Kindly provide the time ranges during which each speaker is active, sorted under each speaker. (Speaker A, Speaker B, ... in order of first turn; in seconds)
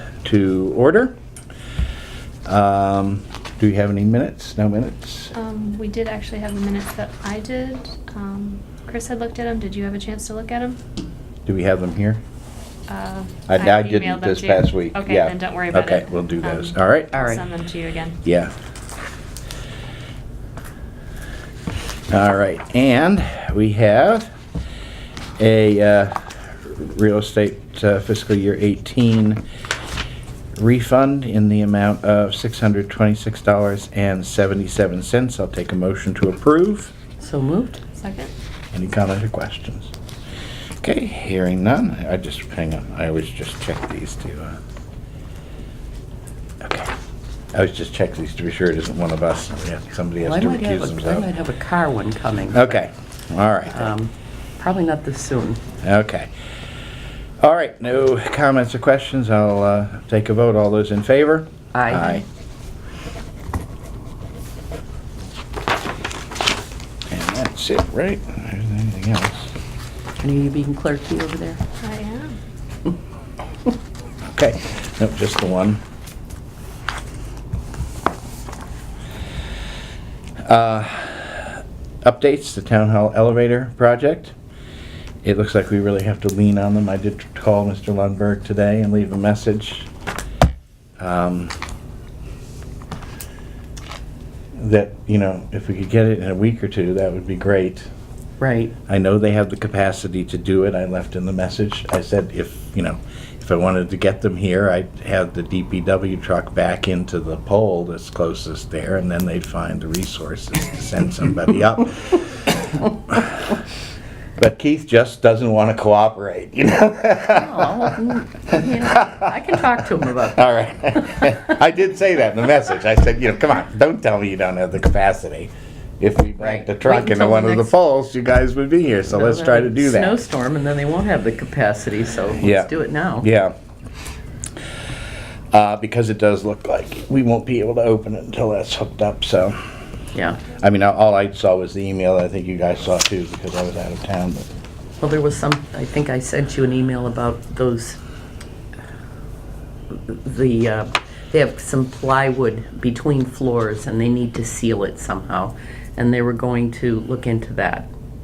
Speaker A: 0.2-1.1, 2.5-5.3, 11.4-12.2, 13.5-17.1, 18.2-18.5, 22.1-24.3, 25.4-29.4, 30.6-36.9, 38.7-39.9, 40.8-44.6, 46.6-46.9, 47.5-51.3, 52.5-53.9, 55.8-56.3, 57.4-62.2, 67.1-69.5, 74.2-75.8, 80.4-84.3, 85.2-89.9, 91.0-91.5, 94.5-97.9, 98.9-112.2, 113.1-113.5, 114.4-118.0, 120.3-130.2, 132.3-133.5, 135.5-139.6, 140.6-144.5
Speaker B: 5.3-10.8, 12.9-18.2, 37.9-38.3, 71.8-72.4
Speaker C: 17.1-17.4, 37.2-37.8, 50.2-52.8, 53.7-55.6, 61.7-62.2, 70.2-71.6, 98.4-98.8, 117.3-120.4, 126.4-127.7, 129.1-133.3, 140.1-140.4, 145.0-148.0, 149.9-157.9